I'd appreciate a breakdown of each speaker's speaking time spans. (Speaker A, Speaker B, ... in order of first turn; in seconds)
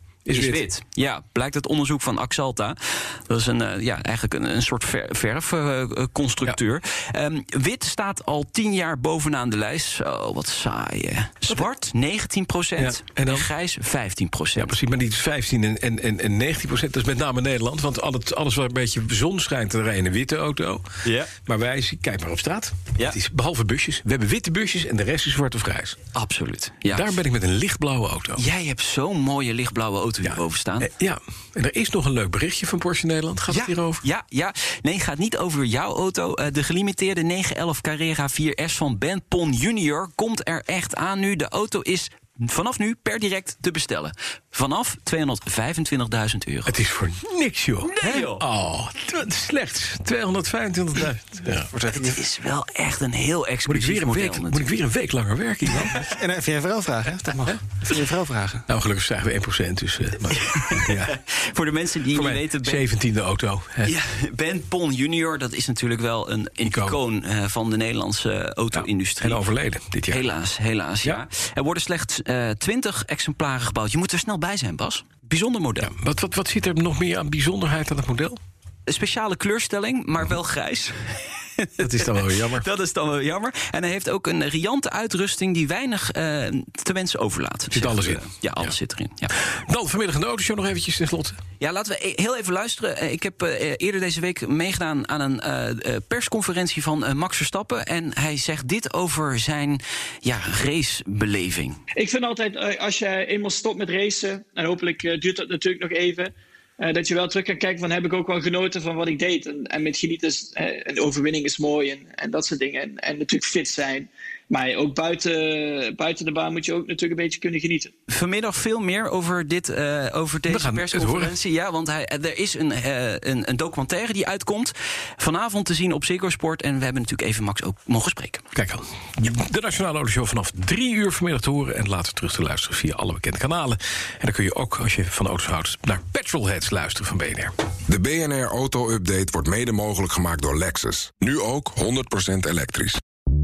Speaker A: 0.3-0.7, 12.8-13.5, 14.6-20.9, 21.4-26.0, 26.9-28.4, 30.2-34.0, 46.7-51.7, 53.7-56.1, 58.7-61.2, 62.1-63.9, 66.6-67.0, 68.7-70.2, 75.8-78.4, 81.8-82.7, 87.7-88.7, 89.4-91.4, 120.5-121.4, 128.6-137.5
Speaker B: 0.3-14.8, 21.0-21.3, 26.1-27.1, 28.4-30.9, 33.5-46.7, 47.8-48.4, 52.0-54.7, 60.4-62.9, 63.8-69.4, 70.1-76.0, 78.9-89.3, 91.6-101.8, 118.1-128.4
Speaker C: 51.7-52.2, 56.0-58.6
Speaker D: 102.0-117.9
Speaker E: 137.9-143.0